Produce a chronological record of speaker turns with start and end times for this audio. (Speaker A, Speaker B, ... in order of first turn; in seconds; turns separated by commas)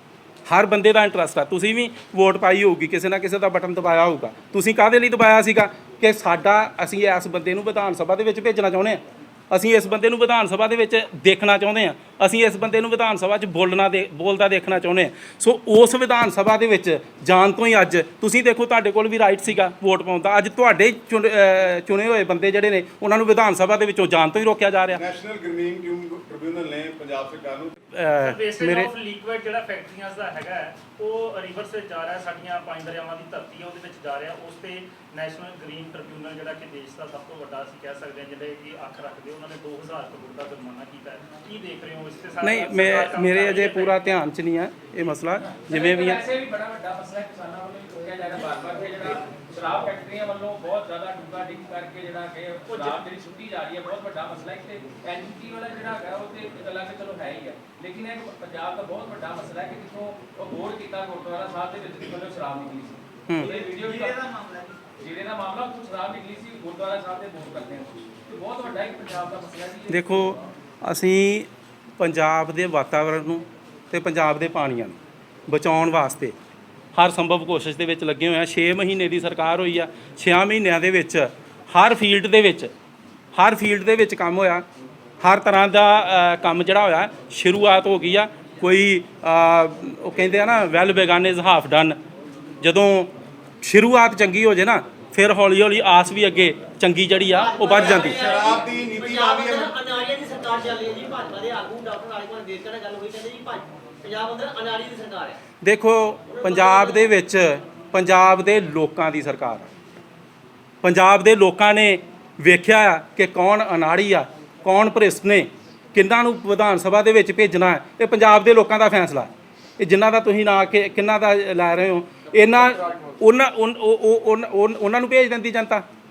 Speaker A: 0.5-25.0, Speaker B: 24.9-27.8, Speaker A: 27.9-28.9, Speaker C: 28.2-44.2, Speaker A: 42.4-46.2, Speaker D: 45.6-64.3, Speaker C: 52.7-53.0, Speaker E: 63.4-64.7, Speaker D: 65.0-70.4, Speaker A: 69.9-71.5, Speaker A: 72.0-76.3, Speaker A: 76.9-82.7, Speaker A: 83.3-84.6, Speaker A: 85.2-92.0, Speaker A: 92.6-98.2, Speaker E: 97.3-105.4, Speaker B: 97.7-99.7, Speaker A: 105.6-109.7, Speaker E: 106.3-107.1, Speaker A: 110.8-125.8, Speaker D: 122.4-123.2